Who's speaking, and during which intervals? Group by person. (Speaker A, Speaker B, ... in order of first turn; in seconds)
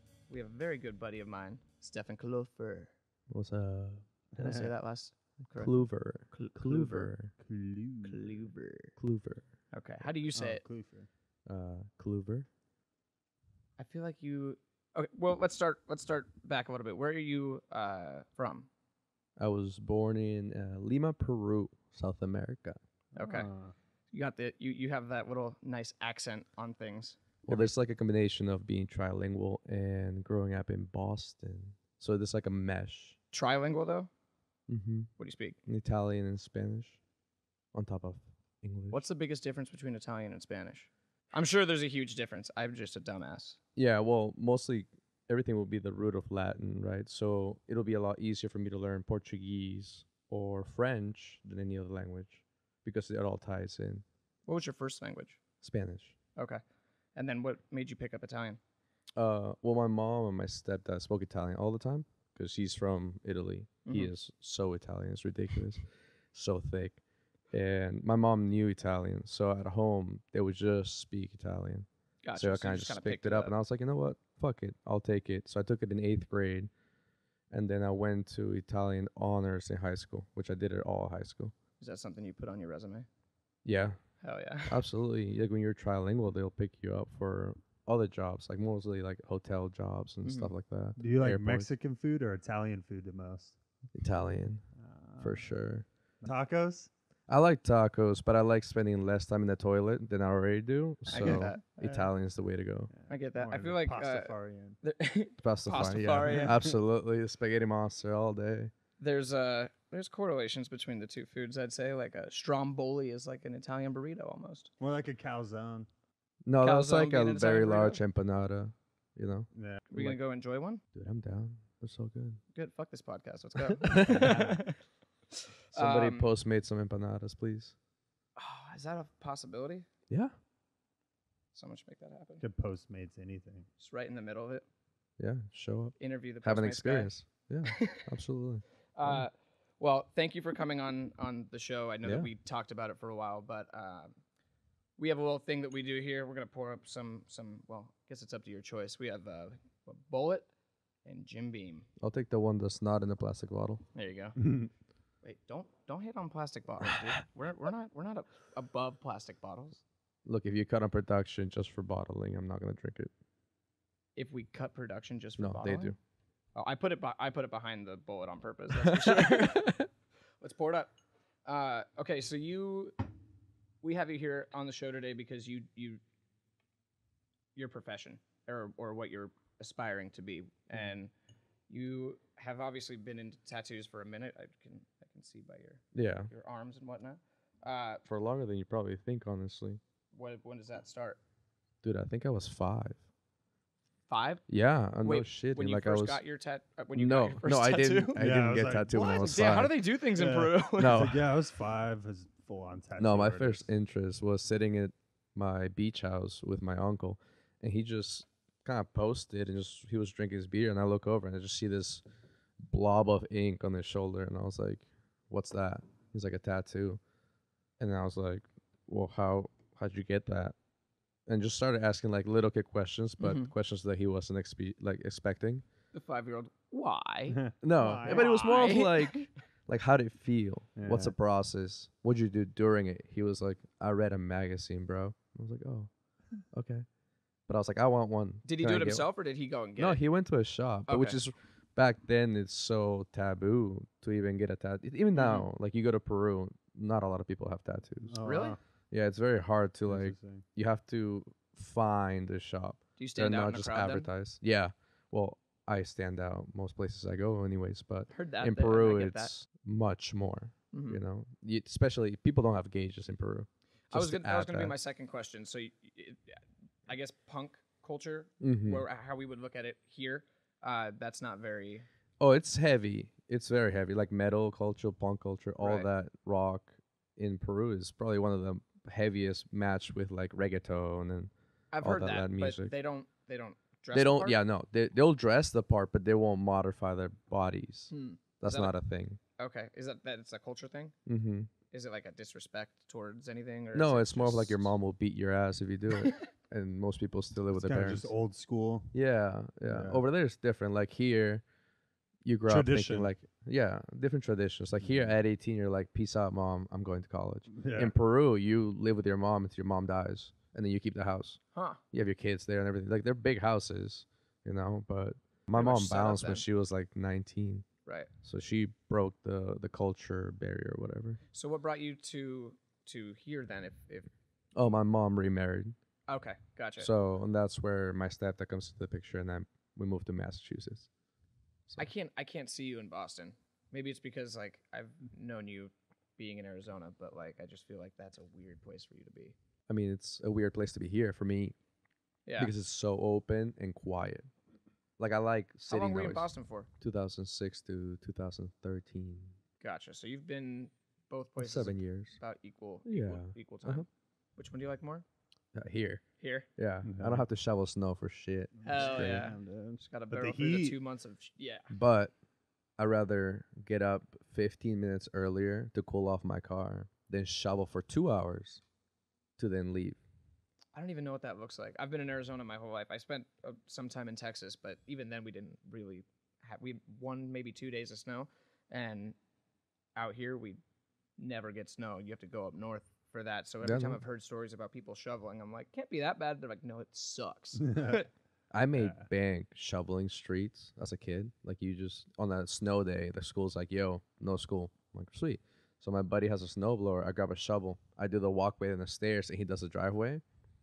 Speaker A: 0.3-2.9, 4.3-7.1, 8.0-8.9, 9.7-10.6, 13.8-18.7, 23.1-23.5, 24.1-27.7, 33.3-34.1, 35.2-35.6, 38.9-43.6, 54.5-55.4, 56.4-56.6, 57.1-58.6, 63.9-64.1, 72.2-73.5, 81.8-83.1, 84.2-84.8, 90.2-90.5, 101.1-101.6, 103.1-106.6, 109.0-114.7, 116.6-118.0, 119.9-120.8, 122.5-124.8, 125.3-126.3, 128.4-129.9, 131.5-132.4, 133.8-134.6, 136.0-137.1, 137.7-138.0, 138.9-144.1, 145.0-150.5, 151.1-151.9, 153.9-154.4, 155.2-159.8, 164.2-165.9, 166.5-169.8, 170.4-170.9, 171.4-173.0, 173.8-176.0, 177.6-181.1, 181.7-188.0, 190.1-191.2, 194.1-194.4, 195.0-198.2, 198.9-201.0, 223.2-223.5, 225.9-227.4, 228.0-229.3, 238.4-240.0, 240.9-241.2, 245.1-245.4, 248.2-248.6, 253.0-254.1, 258.1-259.3, 260.7-261.0, 263.9-271.9, 275.6-275.9, 281.7-284.4, 287.9-288.7, 289.4-290.9, 291.7-294.7, 311.5-311.8, 315.5-316.4, 321.3-324.1, 326.1-326.9, 331.7-339.3, 342.2-342.5, 345.7-346.7, 349.6-355.0, 356.2-356.5, 358.6-361.7, 370.7-379.1, 379.9-380.6, 381.2-388.1
Speaker B: 3.3-4.0, 5.6-7.3, 9.0-9.4, 11.5-12.5, 19.4-22.8, 27.4-33.2, 34.7-35.1, 35.6-37.0, 37.7-39.0, 43.8-54.0, 55.6-56.1, 59.1-76.7, 77.5-81.5, 83.6-84.0, 84.7-91.7, 93.9-94.6, 95.2-95.8, 97.3-102.9, 105.4-108.7, 116.4-120.2, 120.9-122.4, 123.7-124.4, 125.7-127.7, 135.2-139.2, 142.0-142.3, 152.0-153.8, 160.2-163.1, 165.4-166.0, 168.8-169.9, 185.9-186.3, 188.0-189.8, 191.8-193.0, 194.5-196.2, 196.9-199.7, 200.8-201.3, 203.0-212.0, 212.6-217.0, 217.8-220.5, 221.2-225.6, 227.6-235.9, 236.5-236.8, 237.5-239.1, 239.8-264.7, 268.4-268.8, 272.2-282.7, 283.9-289.2, 291.1-291.5, 293.7-298.1, 298.9-301.4, 302.2-311.4, 311.9-317.6, 318.2-321.2, 324.5-325.8, 326.8-330.9, 339.7-341.5, 342.4-344.3, 345.0-346.3, 346.8-349.4, 351.4-352.2, 352.8-353.9, 355.5-356.0, 356.6-359.3, 361.7-362.1, 362.8-368.6, 369.4-370.0, 383.6-384.0, 388.5-400.2
Speaker C: 4.3-4.7, 7.3-8.4, 10.3-11.1, 23.2-23.7, 91.0-93.5, 94.8-95.5, 96.2-96.9, 101.2-102.1, 102.9-104.8, 106.0-106.6, 114.8-115.9, 119.5-119.8, 124.1-124.6, 132.4-133.7, 154.4-154.7, 198.2-198.9, 200.2-203.7, 227.3-228.3, 230.8-231.1, 248.1-248.6, 249.9-250.4, 297.6-298.9, 299.7-300.0, 302.5-303.1, 307.5-307.9, 356.8-357.2, 358.6-360.8